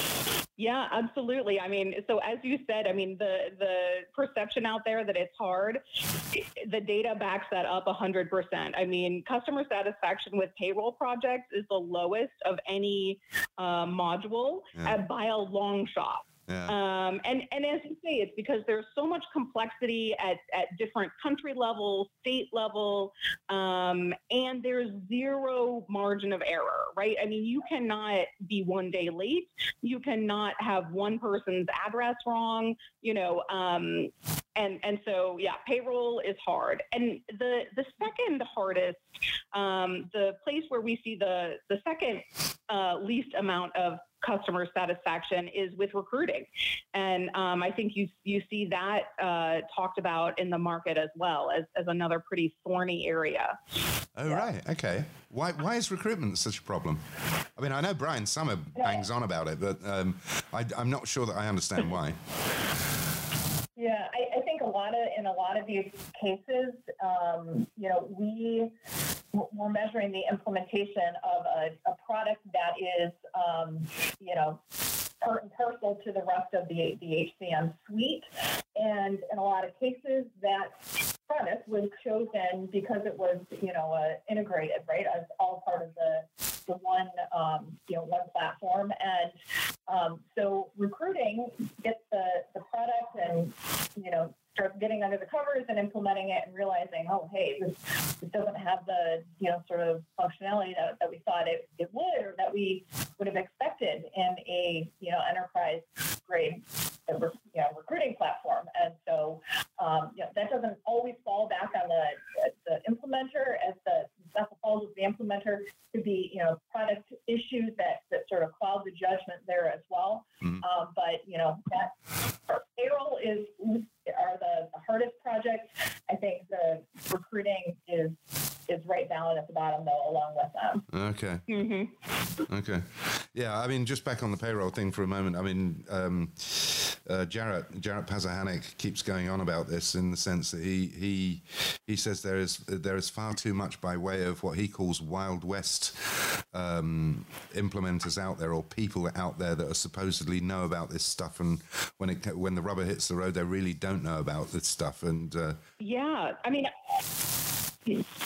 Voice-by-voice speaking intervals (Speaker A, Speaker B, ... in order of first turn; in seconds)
Speaker A: 0.6-39.0, 39.5-53.6, 131.5-131.9, 155.8-156.7
Speaker B: 16.5-16.8, 54.2-62.2, 130.9-131.4, 132.5-155.6
Speaker C: 63.8-68.7, 69.3-74.6, 75.2-122.0, 122.5-130.9